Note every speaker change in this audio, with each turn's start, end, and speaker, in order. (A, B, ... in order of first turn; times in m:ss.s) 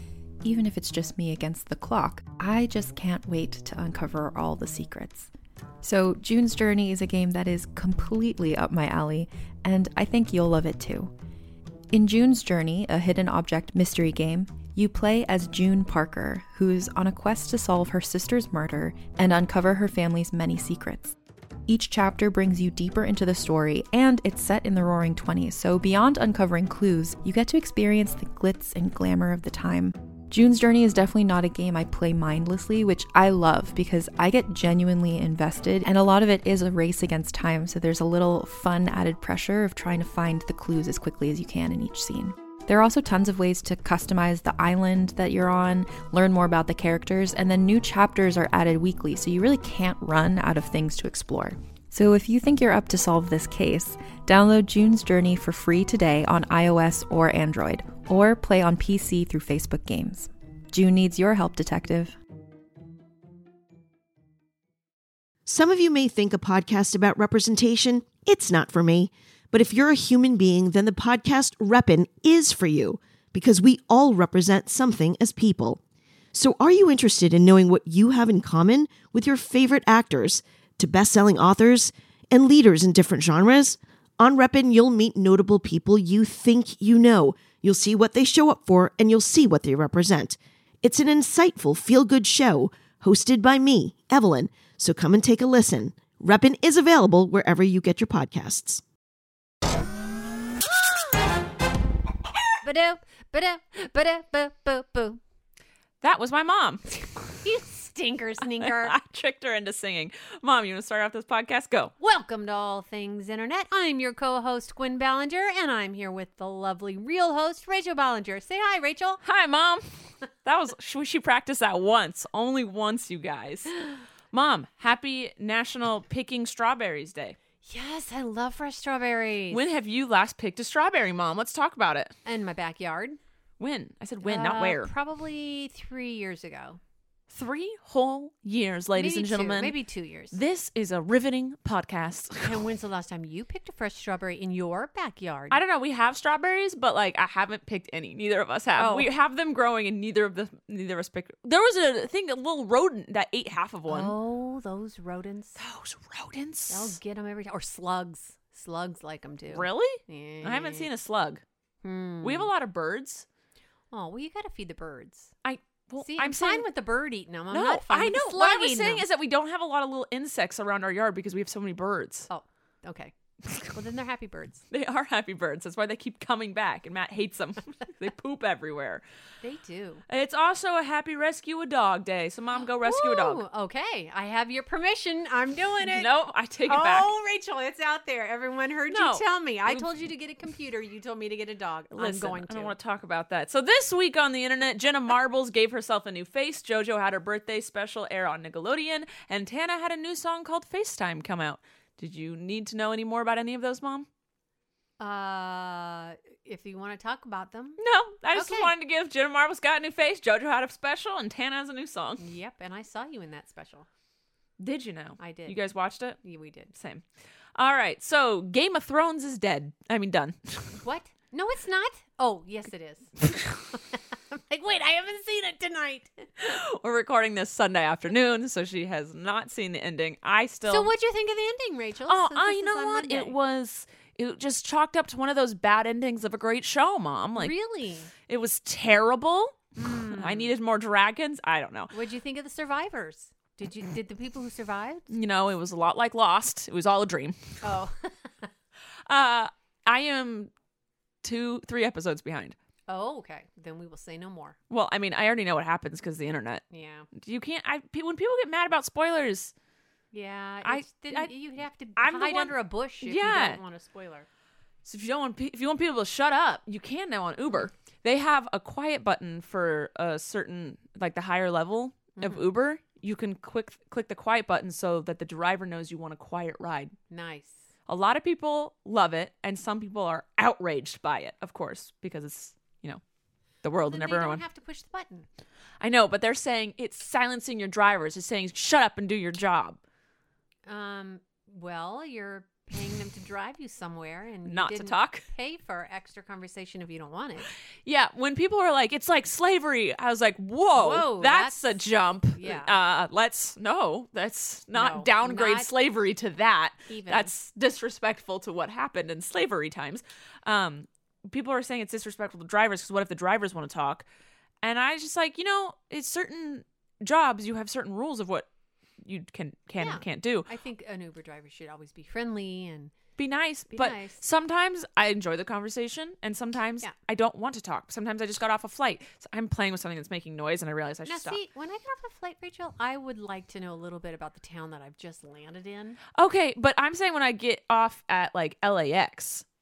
0:00.4-0:05.3 A
0:05.8-0:11.1 A
0:11.9-0:21.2 A
0:21.7-1:02.2 A
1:05.5-1:15.8 B
1:16.3-1:38.8 B
1:42.6-1:45.2 C
1:46.0-1:47.1 D
1:47.4-1:49.0 C
1:48.6-1:51.9 D
1:52.0-1:59.2 C
1:59.2-1:59.9 D
2:00.4-2:07.4 D
2:07.6-2:09.6 C
2:09.5-2:12.1 D
2:12.2-2:13.2 C
2:13.6-2:14.9 D
2:14.2-2:16.8 C
2:17.3-2:19.8 D
2:19.0-2:20.4 C
2:20.3-2:22.6 D
2:22.4-2:25.6 C
2:25.5-2:34.2 D
2:28.8-2:29.1 C
2:33.9-2:35.6 C
2:35.6-2:37.0 D
2:36.7-2:40.9 C
2:39.5-2:41.4 D
2:41.8-2:42.5 C
2:42.2-2:43.3 D
2:43.9-2:45.3 C
2:45.4-2:46.7 D
2:46.0-2:49.0 C
2:47.5-2:52.3 D
2:52.3-2:53.1 C
2:53.7-2:54.6 C
2:54.7-2:59.0 D
2:59.4-3:00.0 C
3:00.1-3:03.4 D
3:02.8-3:06.1 C
3:05.8-3:07.1 D
3:06.6-3:12.8 C
3:08.9-3:09.9 D
3:11.9-3:24.1 D
3:25.0-3:27.8 C
3:27.8-3:32.2 D
3:28.3-3:28.7 C
3:32.2-3:33.9 C
3:34.6-3:36.2 D
3:35.2-3:35.6 C
3:36.2-3:36.7 C
3:36.7-3:37.0 D
3:37.6-3:40.8 D
3:40.8-3:46.3 C
3:46.4-3:50.9 D
3:50.7-3:53.4 C
3:52.1-3:57.6 D
3:57.4-3:58.1 C
3:58.3-4:01.9 D
3:59.8-4:00.5 C
4:01.9-4:05.1 C
4:05.1-4:07.6 D
4:07.6-4:08.5 C
4:09.1-4:10.5 D
4:11.2-4:12.6 D
4:12.9-4:14.6 C
4:14.7-4:19.5 D
4:16.7-4:17.1 C
4:20.1-4:24.3 C
4:20.6-4:21.3 D
4:22.0-4:23.6 D
4:24.8-4:37.0 D
4:32.2-4:32.4 C
4:37.1-4:37.6 C
4:37.9-4:43.0 D
4:43.6-4:44.4 D
4:43.9-4:45.3 C
4:45.8-4:49.8 D
4:50.7-4:57.5 C
4:54.5-4:55.2 D
4:57.8-5:14.0 D
5:00.8-5:01.8 C
5:02.4-5:02.7 C
5:04.7-5:05.7 C
5:06.9-5:07.3 C
5:14.6-5:18.5 D
5:19.0-5:20.5 D
5:19.8-5:22.9 C
5:23.2-5:31.4 D
5:23.7-5:24.2 C
5:31.1-5:36.0 C
5:36.2-5:39.4 D